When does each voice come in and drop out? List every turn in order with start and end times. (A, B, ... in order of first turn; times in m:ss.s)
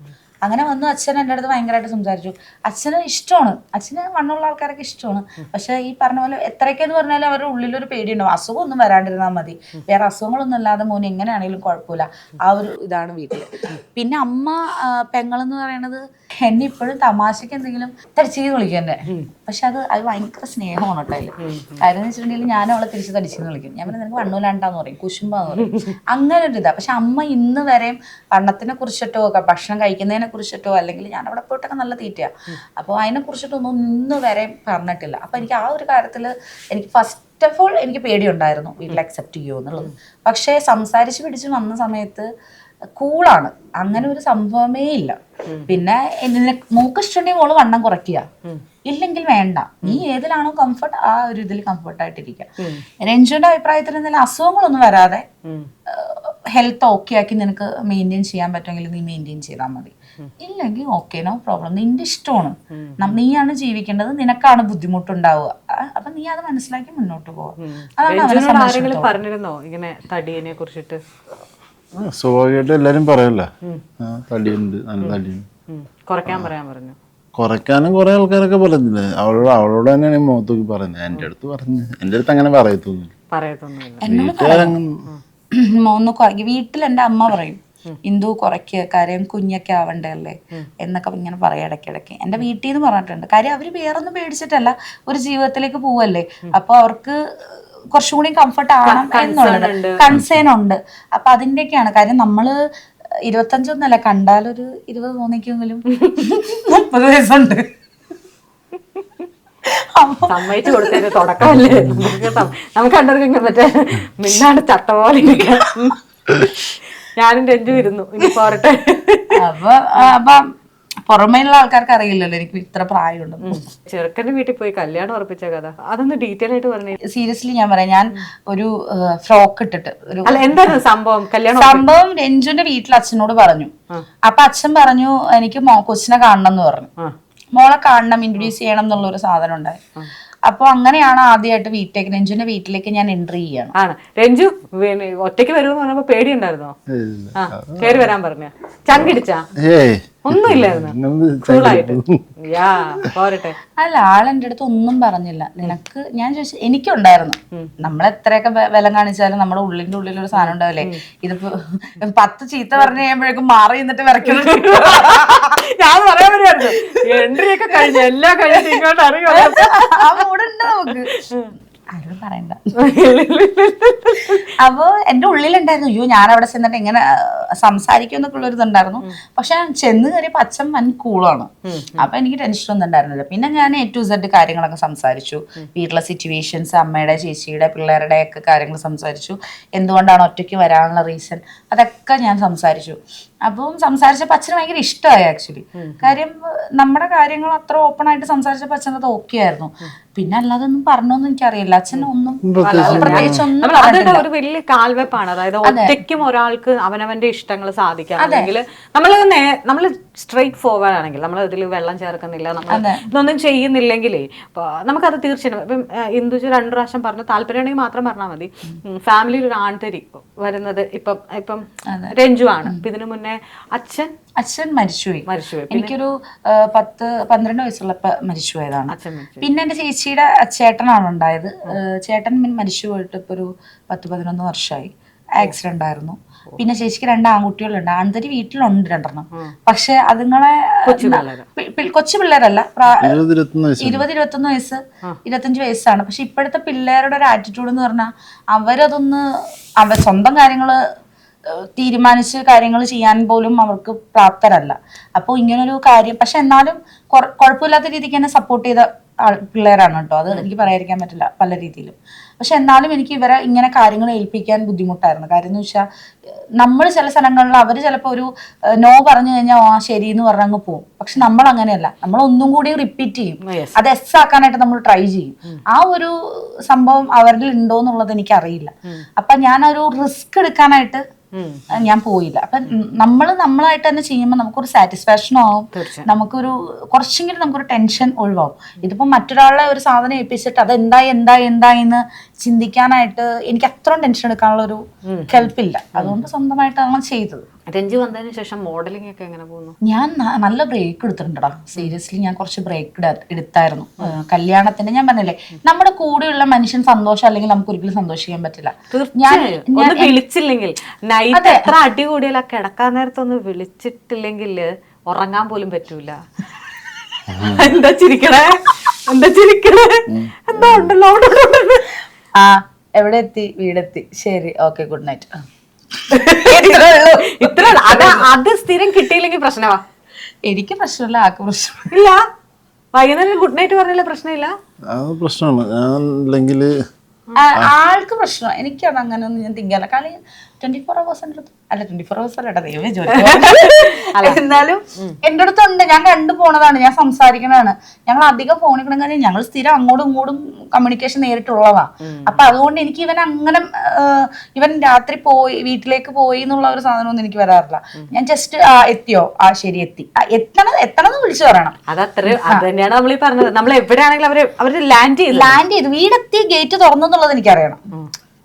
0:00.4-0:42.3 A
0:21.4-0:21.8 B
0:25.6-0:25.9 B
0:43.0-0:45.2 A
0:45.5-0:45.8 B
0:45.7-0:48.3 A
0:48.9-0:52.5 A
0:53.0-0:55.2 A
0:55.4-0:55.7 B
0:55.9-1:09.1 A
1:02.7-1:03.1 B
1:07.6-1:11.0 B
1:11.9-1:13.5 C
1:14.0-1:15.4 C
1:15.0-1:17.0 B
1:17.4-1:23.1 C
1:23.3-1:24.1 B
1:24.0-1:24.8 A
1:24.0-1:24.9 C
1:25.5-1:37.2 A
1:37.9-1:42.6 A
1:38.8-1:40.0 B
1:43.3-1:47.7 A
1:50.0-1:51.1 A
1:50.3-1:59.4 B
1:59.4-2:00.5 A
2:01.1-2:03.6 A
2:03.4-2:07.0 B
2:07.1-2:10.7 A
2:10.2-2:11.9 B
2:11.5-2:13.7 A
2:14.2-2:16.9 A
2:17.5-2:19.8 A
2:20.5-2:23.7 A
2:23.8-2:26.8 B
2:26.9-2:28.1 C
2:27.3-2:29.5 B
2:28.9-2:32.2 C
2:30.3-2:33.6 B
2:33.8-2:45.6 A
2:40.4-2:41.0 B
2:44.3-2:50.2 B
2:47.0-2:47.3 A
2:48.5-2:51.1 A
2:51.1-2:51.5 B
2:51.9-2:52.6 A
2:52.8-2:54.5 B
2:54.6-3:24.3 A
3:01.7-3:02.1 B
3:15.8-3:16.2 B
3:22.4-3:23.4 C
3:22.6-3:44.1 B
3:25.6-3:26.0 A
3:28.2-3:28.5 A
3:32.7-3:33.1 A
3:41.9-3:42.8 A
3:44.4-4:03.2 A
3:45.3-3:45.9 B
3:48.9-3:49.5 B
4:00.8-4:01.5 B
4:02.9-4:04.0 C
4:03.8-4:09.3 A
4:09.8-4:10.8 A
4:11.5-4:25.8 A
4:26.6-4:41.0 A
4:33.4-4:33.8 B
4:41.4-4:41.7 B
4:41.7-4:57.4 A
4:45.7-4:46.1 B
4:55.0-4:56.2 B
4:57.7-4:59.8 B
4:59.8-5:10.2 A
5:08.9-5:16.2 B
5:11.3-5:11.7 A
5:17.3-5:17.6 C
5:17.4-5:21.9 B
5:20.1-5:20.9 C
5:22.4-5:25.3 A
5:26.1-5:28.3 A
5:26.1-5:29.8 B
5:30.4-5:31.9 A
5:31.9-5:32.2 B
5:32.9-5:34.6 B
5:34.9-5:36.7 C
5:37.4-6:01.8 A
5:43.1-5:44.4 B
5:52.0-5:52.4 B
6:01.9-6:05.6 B
6:02.3-6:02.6 A
6:05.3-6:07.8 A